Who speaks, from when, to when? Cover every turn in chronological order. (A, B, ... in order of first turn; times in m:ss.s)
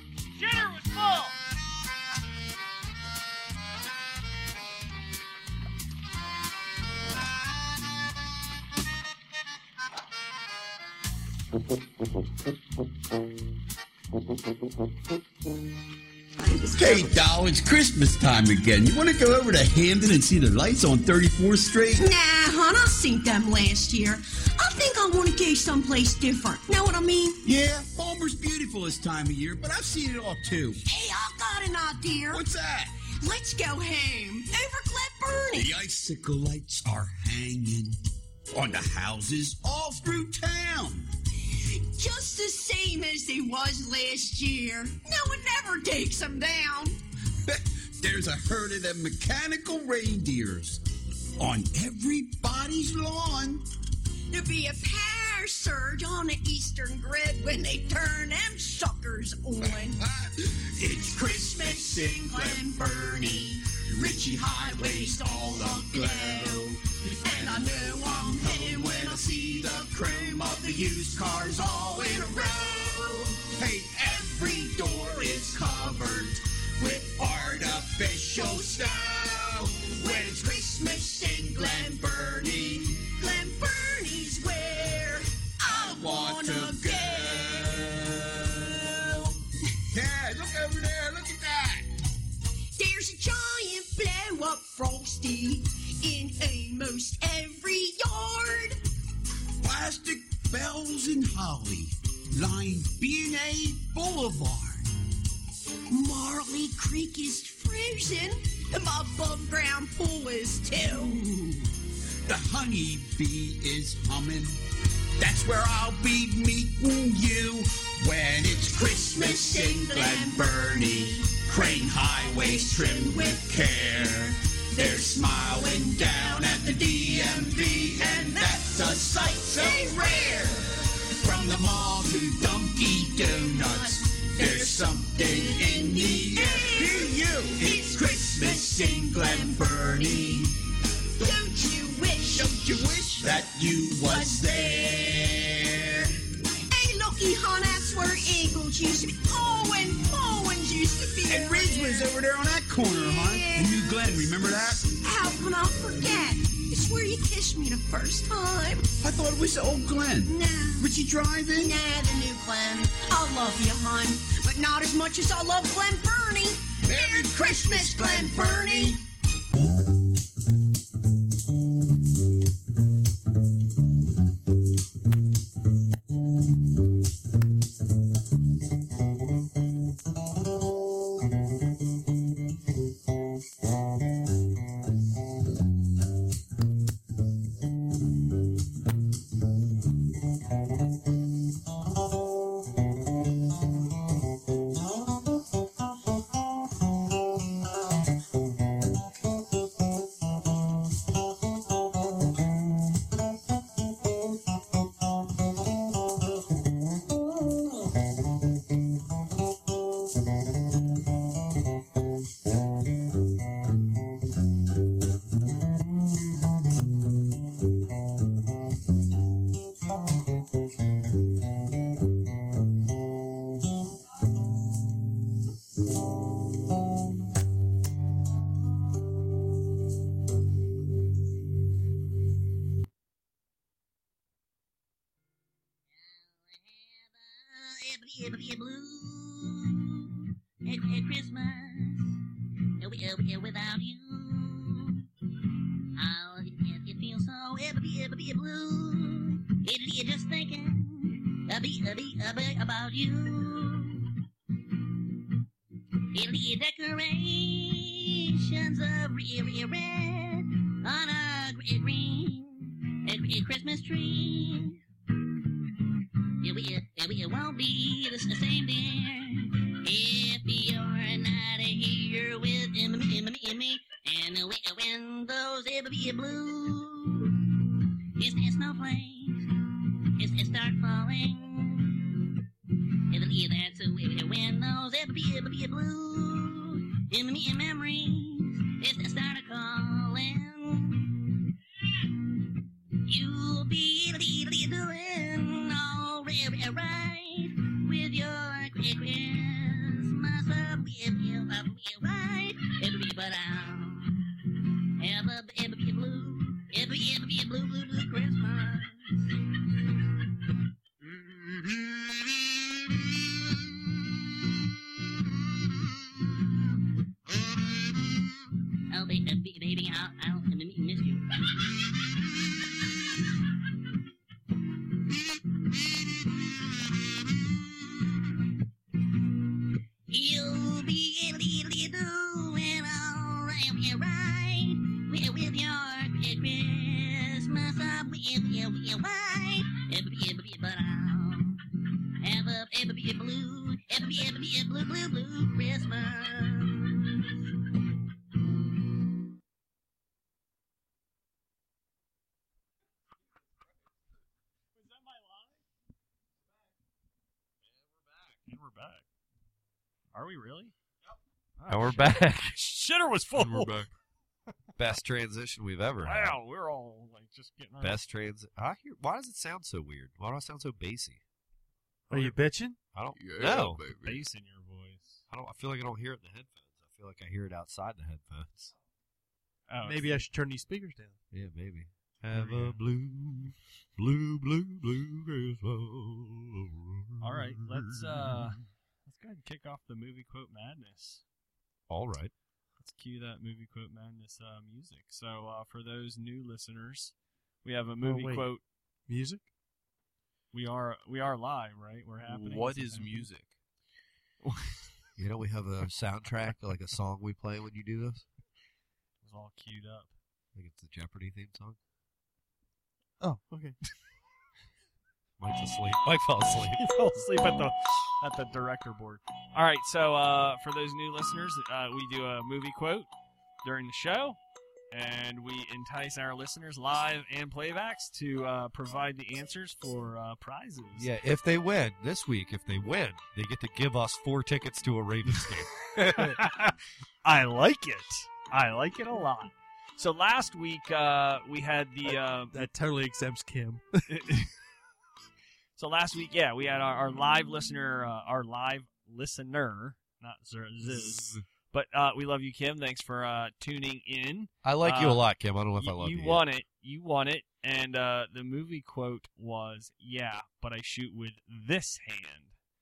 0:00.4-0:01.3 A
0:16.4-0:17.2 B
0:16.7-0:22.0 C
0:21.9-0:27.4 B
0:27.4-0:30.8 C
0:30.8-0:32.5 B
0:32.3-0:32.9 C
0:33.1-0:35.8 B
0:35.5-0:38.0 C
0:38.5-0:41.1 C
0:41.7-0:47.0 B
0:47.4-0:50.8 C
0:51.4-0:53.6 C
0:54.3-1:00.0 B
0:59.7-1:06.8 C
1:01.0-1:10.8 B
1:07.3-1:12.7 C
1:11.7-1:13.2 B
1:13.5-1:20.7 C
1:14.9-1:16.0 B
1:18.4-1:28.1 B
1:21.4-1:22.8 C
1:25.7-1:28.6 C
1:29.9-1:31.9 C
1:32.7-1:38.8 B
1:39.6-1:44.9 C
1:45.9-1:51.2 B
1:50.8-1:51.6 C
1:52.2-1:54.6 C
1:55.2-2:20.4 C
1:58.7-2:04.1 B
2:04.7-2:10.7 B
2:13.3-2:20.6 B
2:21.2-2:25.4 B
2:22.3-2:26.1 C
2:26.7-2:32.2 B
2:31.2-2:35.0 C
2:32.9-2:34.2 B
2:34.9-2:38.9 B
2:39.0-2:41.8 C
2:40.2-2:49.0 B
2:46.8-2:49.0 C
3:55.9-4:02.1 D
4:02.8-4:05.0 D
4:06.0-4:14.1 D
4:16.1-4:24.8 D
4:26.4-4:37.4 D
4:38.2-4:39.5 D
4:40.2-4:42.1 D
4:43.1-4:51.4 D
4:53.1-5:04.3 D
5:05.0-5:09.3 D
5:18.9-5:21.6 D
5:30.1-5:41.6 D
5:42.2-5:47.3 D
5:54.8-5:55.6 A
5:58.4-5:59.0 A
6:00.1-6:00.7 A
6:01.6-6:03.8 A
6:01.7-6:02.7 E
6:03.4-6:03.9 F
6:04.8-6:06.4 E
6:06.0-6:08.0 A
6:07.8-6:11.2 E
6:12.1-6:12.4 E
6:12.1-6:12.8 G
6:12.9-6:13.8 E
6:13.1-6:14.2 F
6:14.0-6:15.2 A
6:15.3-6:18.7 E
6:19.7-6:20.3 A
6:19.8-6:21.2 G
6:21.3-6:28.6 E
6:22.3-6:22.8 A
6:27.2-6:31.2 A
6:31.9-6:32.3 E
6:32.8-6:38.6 A
6:38.0-6:38.5 G
6:39.1-6:39.4 G
6:40.5-6:43.3 A
6:42.2-6:43.5 F
6:44.4-6:44.8 A
6:45.2-6:48.2 E
6:49.2-6:50.1 A
6:50.5-6:51.8 E
6:53.2-6:53.8 G
6:55.4-6:56.9 E
6:56.8-7:03.1 A
7:03.6-7:04.4 A
7:04.9-7:11.1 A
7:11.0-7:15.7 E
7:16.0-7:16.7 A
7:17.2-7:22.7 A
7:22.0-7:24.0 G
7:24.1-7:24.4 A
7:25.8-7:42.5 A
7:30.8-7:31.4 F
7:34.6-7:36.4 E